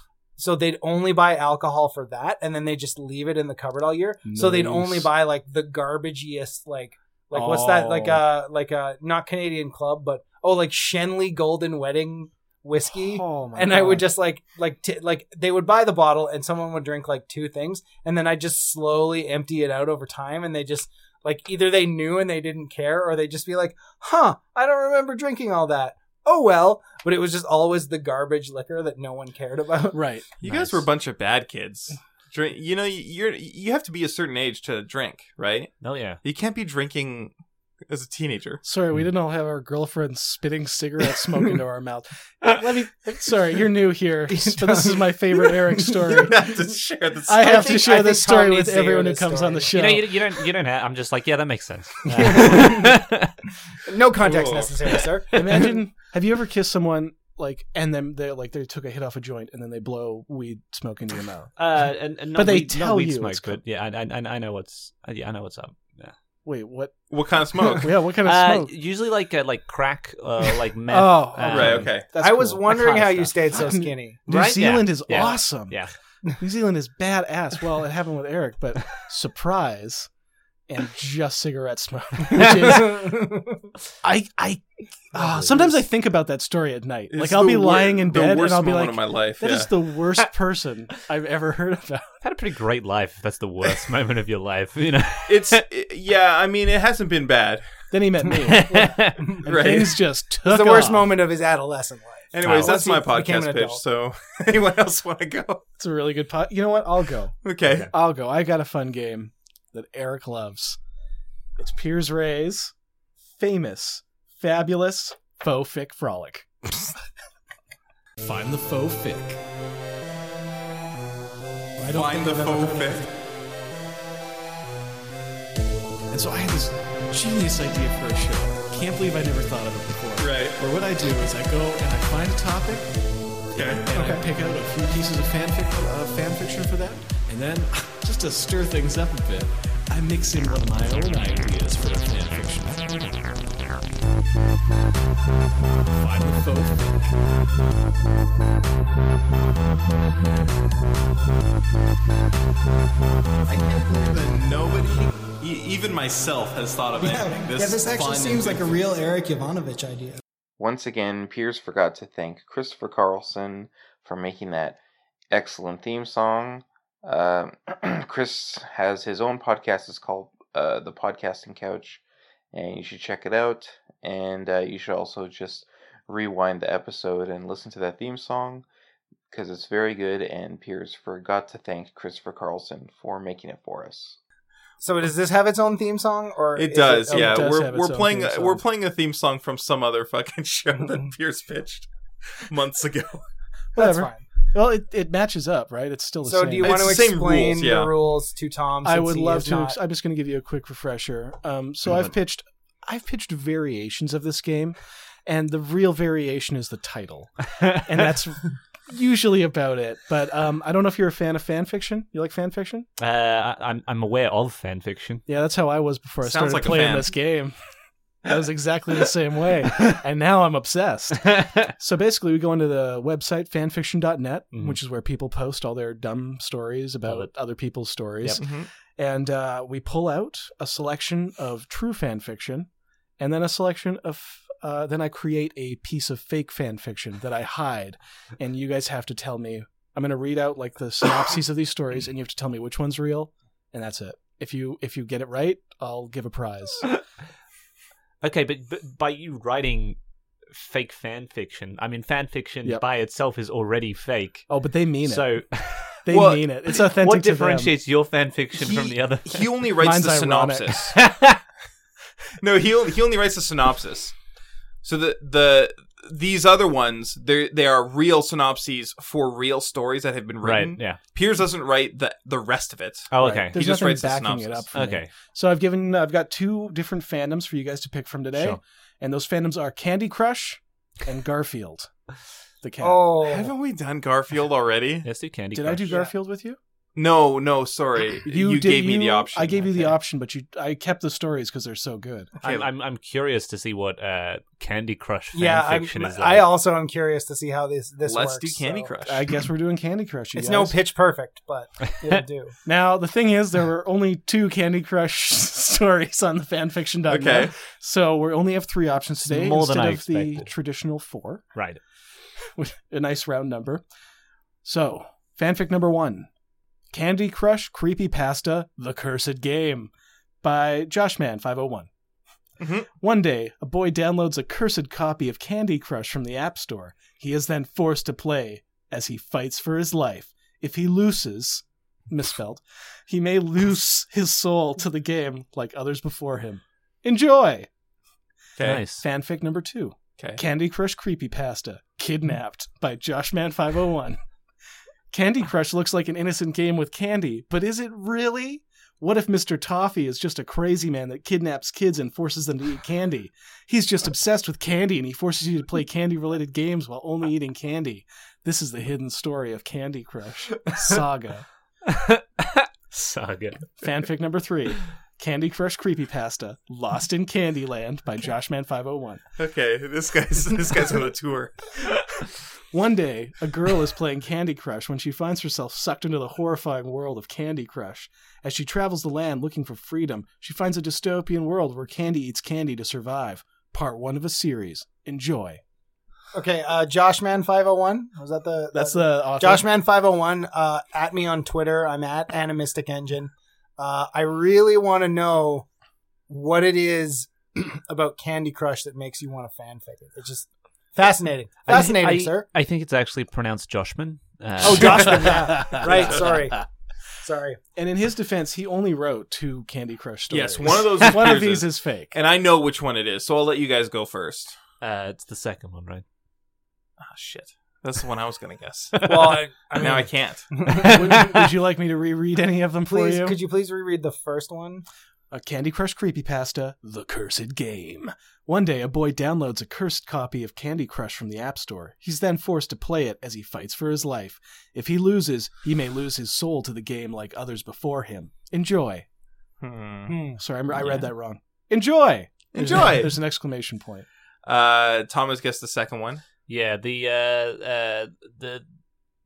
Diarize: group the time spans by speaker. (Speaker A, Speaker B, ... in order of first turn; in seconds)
Speaker A: 0.4-30.0, 44.3-46.3, 47.4-49.7, 52.2-53.0, 53.9-55.4, 72.2-74.2, 82.3-83.6, 98.7-99.5, 100.5-103.8, 157.0-160.2, 184.8-187.5, 193.8-194.2, 196.2-199.8, 282.8-283.5, 295.3-298.9, 300.4-302.5, 386.3-395.6, 396.3-402.5, 404.6-406.6, 407.2-407.6, 419.0-421.0, 422.9-424.9, 440.1-440.4
Speaker B: 4.2-5.1, 7.3-8.2, 12.9-14.0, 29.9-30.3, 38.6-46.5, 47.2-50.2, 55.3-61.6, 62.3-63.6, 66.5-67.1, 67.6-68.7, 70.9-72.8, 73.5-75.8, 76.4-80.1, 80.7-83.1, 84.0-92.2, 97.9-101.1, 105.8-107.3, 107.9-110.8, 111.6-112.7, 113.4-116.5, 118.2-119.4, 121.8-123.1, 126.1-132.9, 133.7-143.3, 145.9-147.2, 187.1-188.6, 193.8-196.9, 198.8-212.9, 215.3-217.5, 218.2-232.7, 233.2-246.9, 254.5-255.4, 256.0-257.7, 259.8-260.8, 273.2-281.9, 282.6-283.1, 285.5-286.6, 288.2-292.3, 299.0-300.8, 302.6-311.5, 312.5-313.8, 314.6-316.3, 316.9-319.9, 320.4-321.9, 323.0-337.7, 338.9-344.2, 345.1-361.5, 363.8-369.2, 372.7-385.6, 388.7-389.7, 404.7-406.4, 407.8-412.1, 420.8-423.4, 425.3-439.0, 440.4-444.1
Speaker C: 30.4-37.3, 37.9-38.6, 46.1-47.7, 54.2-55.0, 67.1-67.9, 71.5-72.0, 87.1-89.7, 95.3-97.8, 99.5-100.0, 102.3-105.6, 107.4-107.9, 121.9-123.1, 130.2-130.6, 133.5-134.1, 153.5-158.7, 186.6-193.2, 196.6-197.9, 216.2-217.1, 228.4-228.7, 256.1-256.4, 258.6-261.0, 262.4-264.1, 264.8-274.6, 283.2-285.1, 287.0-289.9, 298.1-299.3, 307.1-307.5, 322.6-322.9, 369.4-371.9, 410.3-414.6, 417.0-420.5, 439.6-440.2, 442.5-443.1, 444.4-446.2
Speaker D: 30.4-30.8, 35.8-36.2, 49.7-53.3, 61.6-66.1, 68.2-72.1, 72.6-73.5, 74.3-75.9, 85.2-85.7, 92.2-95.6, 98.5-99.2, 102.4-102.7, 213.0-215.2, 221.2-221.6, 248.2-250.0, 250.5-254.5, 255.0-256.0, 256.7-259.5, 260.9-261.4, 270.4-271.0, 273.1-273.6, 274.7-275.1, 285.0-285.9, 292.4-296.5, 309.2-310.5, 311.5-311.8, 338.6-339.0, 361.9-363.8, 401.7-406.1, 414.8-416.0, 420.7-421.4, 440.8-441.1, 446.5-448.6
Speaker E: 160.6-164.8, 165.3-178.6, 179.3-184.2